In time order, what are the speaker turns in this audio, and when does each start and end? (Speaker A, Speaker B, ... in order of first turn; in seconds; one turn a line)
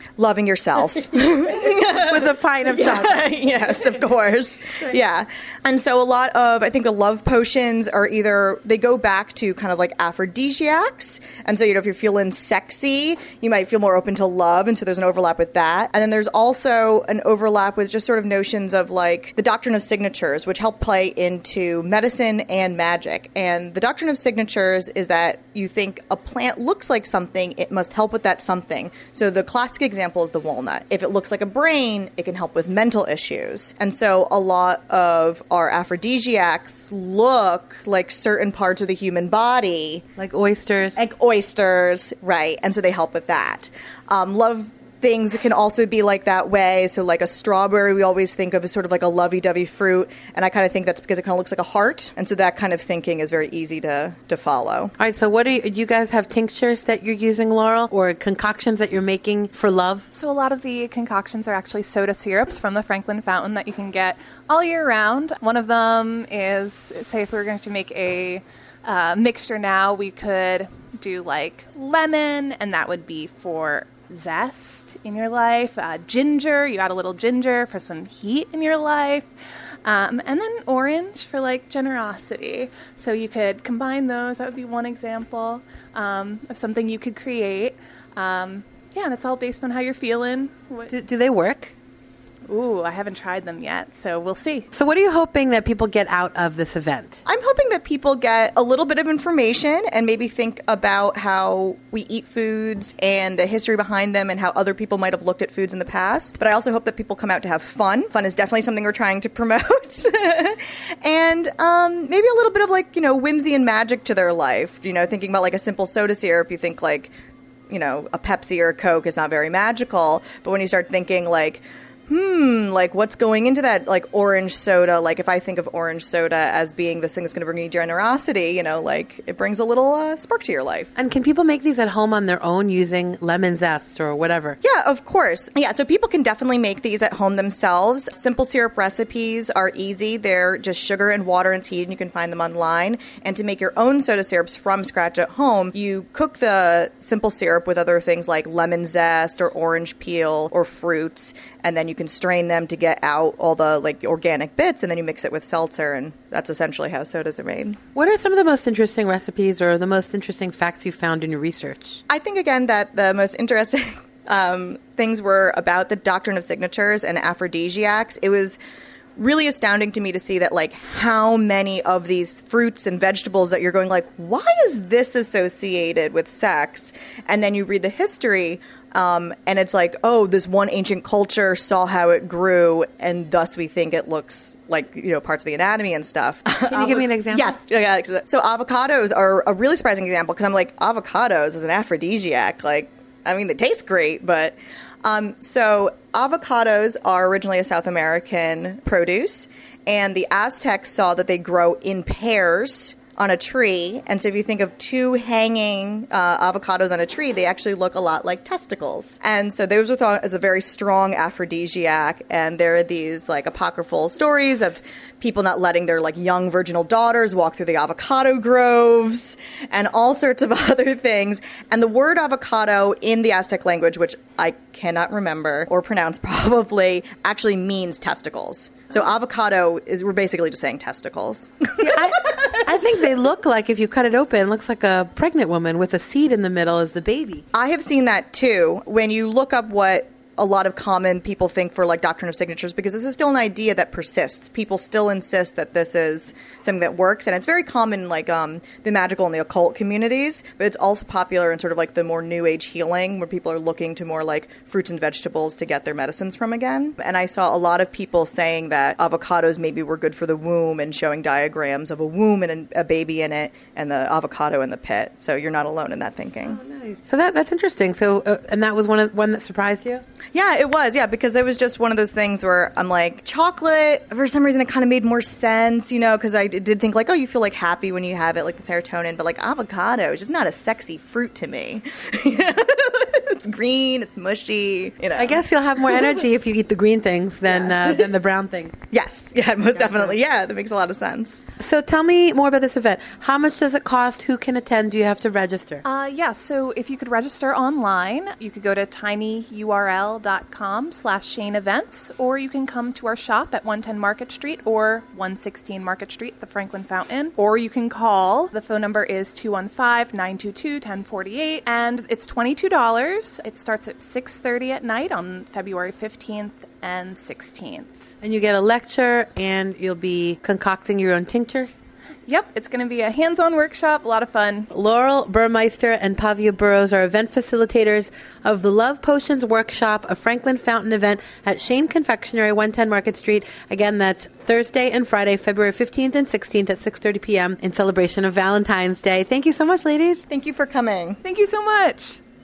Speaker A: 0.2-40.0
Speaker B: 1.9-3.3
Speaker B: 40.2-41.0
Speaker A: 41.0-54.9
Speaker B: 55.0-60.1
Speaker C: 60.1-79.3
Speaker C: 79.8-90.9
Speaker B: 90.9-91.7
Speaker C: 92.5-94.7
Speaker B: 94.7-97.2
Speaker A: 97.2-117.1
Speaker A: 117.7-130.9
Speaker B: 131.0-134.6
Speaker A: 134.6-157.8
Speaker B: 157.9-162.0
Speaker A: 162.1-168.6
Speaker A: 169.2-231.7
Speaker B: 186.7-187.5
Speaker B: 231.8-237.4
Speaker A: 237.5-266.6
Speaker B: 266.5-270.0
Speaker A: 270.3-286.0
Speaker B: 285.2-288.8
Speaker A: 287.5-288.0
Speaker A: 288.9-291.4
Speaker B: 291.6-295.8
Speaker C: 295.8-318.1
Speaker B: 318.2-321.8
Speaker C: 322.3-324.7
Speaker B: 324.7-340.2
Speaker A: 340.3-341.2
Speaker C: 341.2-342.2